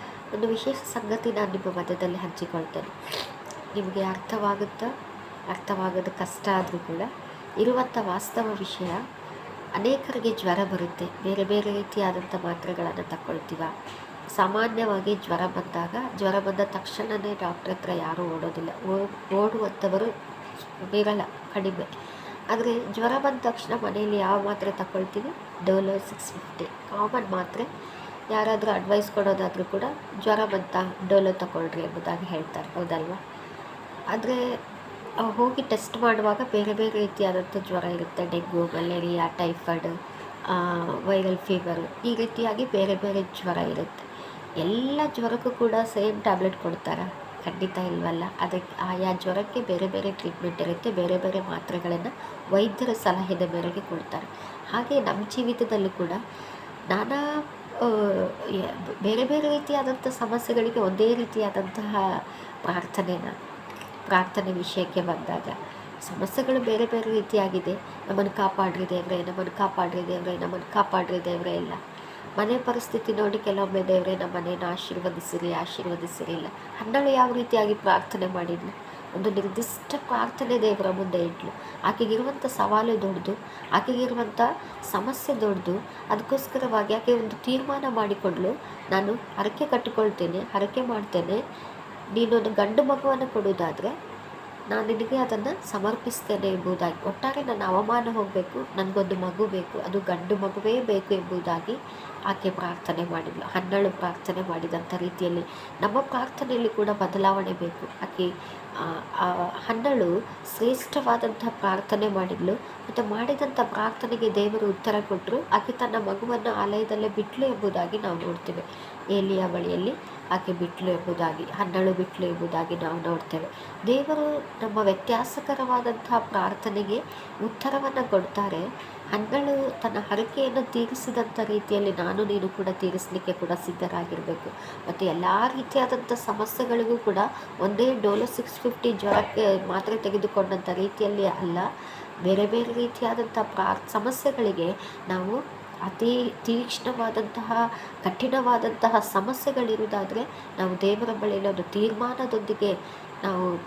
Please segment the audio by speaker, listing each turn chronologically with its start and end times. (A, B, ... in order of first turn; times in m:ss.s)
0:00.4-0:02.9 A
0:03.8-0:04.9 A
0:05.5-0:07.1 A
0:07.6-0:09.0 A
0:09.8-0:13.7 A
0:14.4-0:20.1 A
0:20.9-0:21.9 A
0:22.5-0:27.7 A
0:28.3-0:33.2 A
0:34.1-0:34.4 A
0:35.2-0:39.9 A
0:40.5-0:44.0 A
0:44.6-0:56.2 A
0:56.9-0:57.2 A
0:57.8-1:02.0 A
1:02.6-1:03.4 A
1:04.1-1:11.8 A
1:12.4-1:31.4 A
1:32.2-1:33.9 A
1:34.7-1:41.8 A
1:42.3-1:48.3 A
1:48.8-2:21.7 A
2:22.2-2:25.4 A
2:25.9-2:32.7 A